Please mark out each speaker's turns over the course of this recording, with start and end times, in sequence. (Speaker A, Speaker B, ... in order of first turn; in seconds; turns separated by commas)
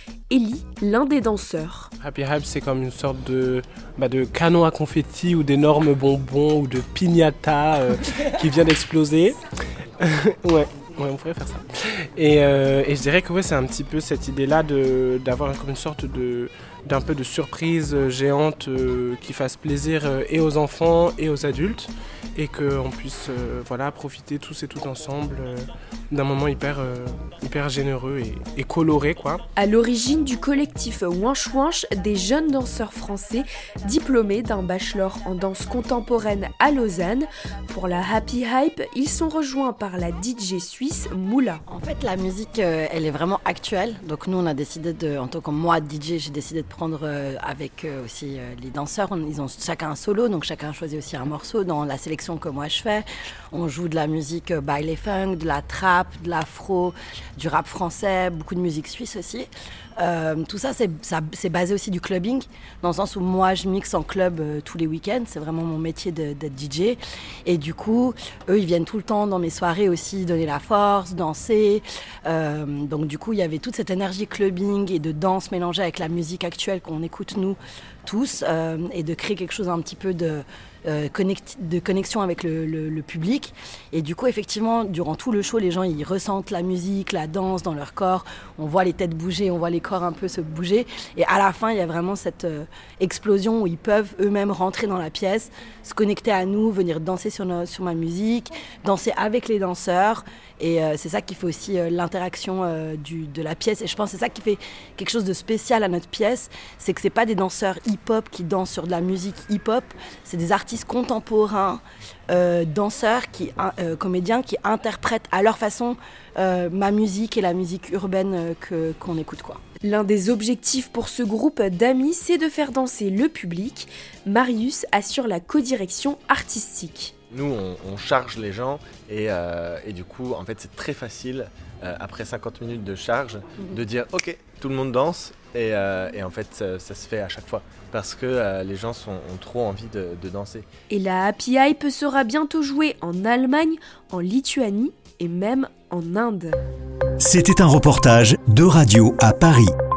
Speaker A: 0.3-1.9, Speaker B: 2.0-9.4, Speaker B: 10.0-29.4, Speaker A: 29.6-41.6, Speaker C: 41.7-119.6, Speaker A: 119.8-127.1, Speaker D: 127.3-140.7, Speaker A: 140.9-146.6, Speaker E: 147.2-149.7